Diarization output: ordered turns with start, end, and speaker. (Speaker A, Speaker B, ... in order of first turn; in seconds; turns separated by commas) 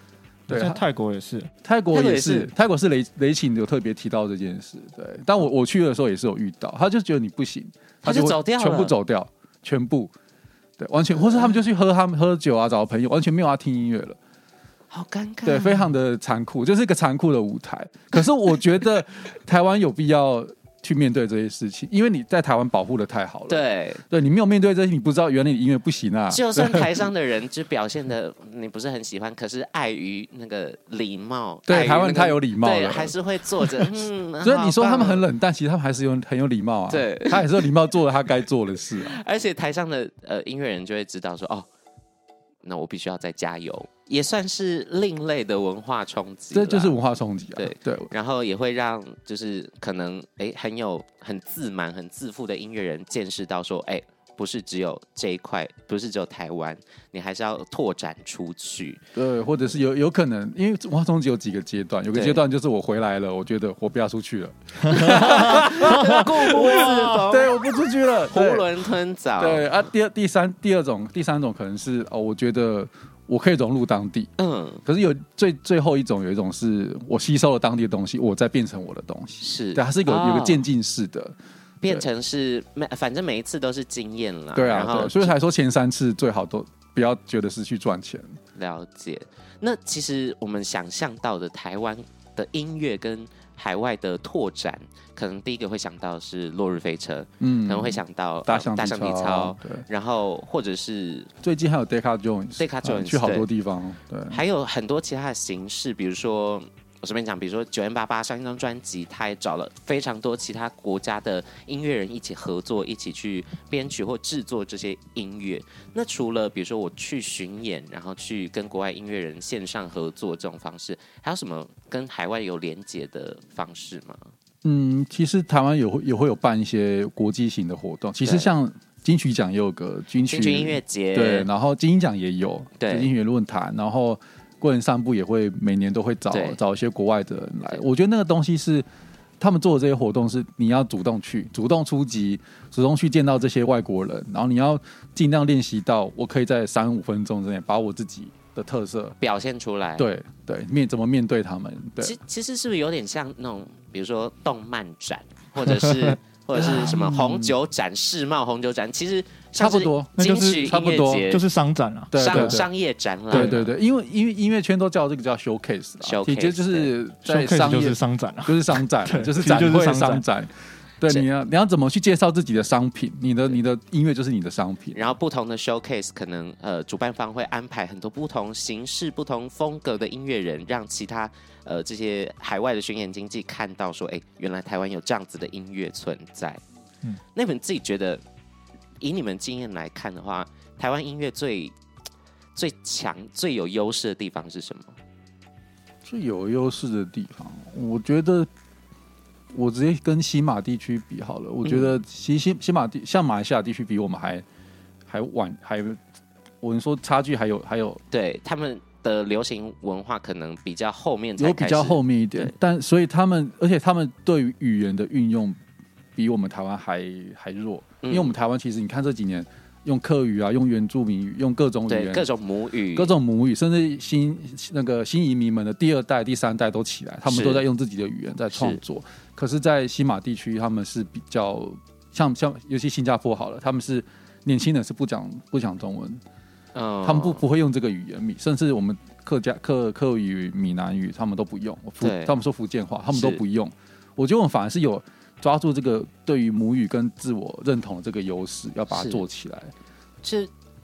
Speaker A: 0.5-0.8, Speaker B: 0.5-1.5, Speaker A: 1.6-10.1, Speaker C: 1.9-2.5, Speaker C: 8.0-8.9, Speaker A: 10.8-14.2, Speaker C: 14.9-15.9, Speaker A: 15.4-26.9, Speaker C: 23.5-24.0, Speaker C: 26.3-35.3, Speaker A: 31.7-33.9, Speaker A: 34.4-39.2, Speaker C: 36.9-37.6, Speaker C: 39.0-41.7, Speaker C: 42.6-47.0, Speaker A: 46.5-48.1, Speaker C: 47.6-59.0, Speaker A: 59.1-68.7, Speaker C: 62.1-62.4, Speaker C: 65.0-67.6, Speaker C: 68.3-69.7, Speaker A: 69.4-74.3, Speaker C: 74.4-74.8, Speaker A: 74.8-81.3, Speaker C: 79.4-80.7, Speaker C: 81.8-85.3, Speaker A: 84.5-88.4, Speaker C: 88.6-101.3, Speaker A: 97.4-99.8, Speaker A: 101.4-104.4, Speaker C: 102.6-103.5, Speaker C: 104.3-124.3, Speaker A: 124.6-138.9, Speaker C: 128.2-128.5, Speaker C: 130.3-131.5, Speaker C: 132.8-133.1, Speaker C: 136.3-136.6, Speaker A: 139.4-149.2, Speaker C: 149.2-150.1, Speaker A: 150.0-152.2, Speaker C: 152.0-161.4, Speaker A: 156.5-157.6, Speaker A: 159.6-161.3, Speaker B: 160.2-162.6, Speaker A: 162.1-162.7, Speaker C: 162.2-163.7, Speaker A: 163.3-175.1, Speaker C: 166.0-166.9, Speaker B: 167.2-170.2, Speaker C: 174.9-186.6, Speaker C: 187.3-188.2, Speaker C: 189.0-191.8, Speaker C: 192.6-195.0, Speaker A: 196.1-198.5, Speaker A: 199.5-204.4, Speaker C: 201.6-201.9, Speaker A: 205.1-206.0, Speaker A: 206.6-208.0, Speaker C: 208.1-212.5, Speaker A: 211.4-215.6, Speaker A: 216.2-222.3, Speaker C: 218.0-218.3, Speaker C: 221.9-223.1, Speaker A: 222.9-236.2, Speaker C: 227.3-227.6, Speaker C: 228.5-228.8, Speaker C: 236.7-237.4, Speaker A: 237.0-249.7, Speaker C: 242.0-242.3, Speaker C: 243.1-243.4, Speaker C: 248.9-249.2, Speaker C: 250.2-250.5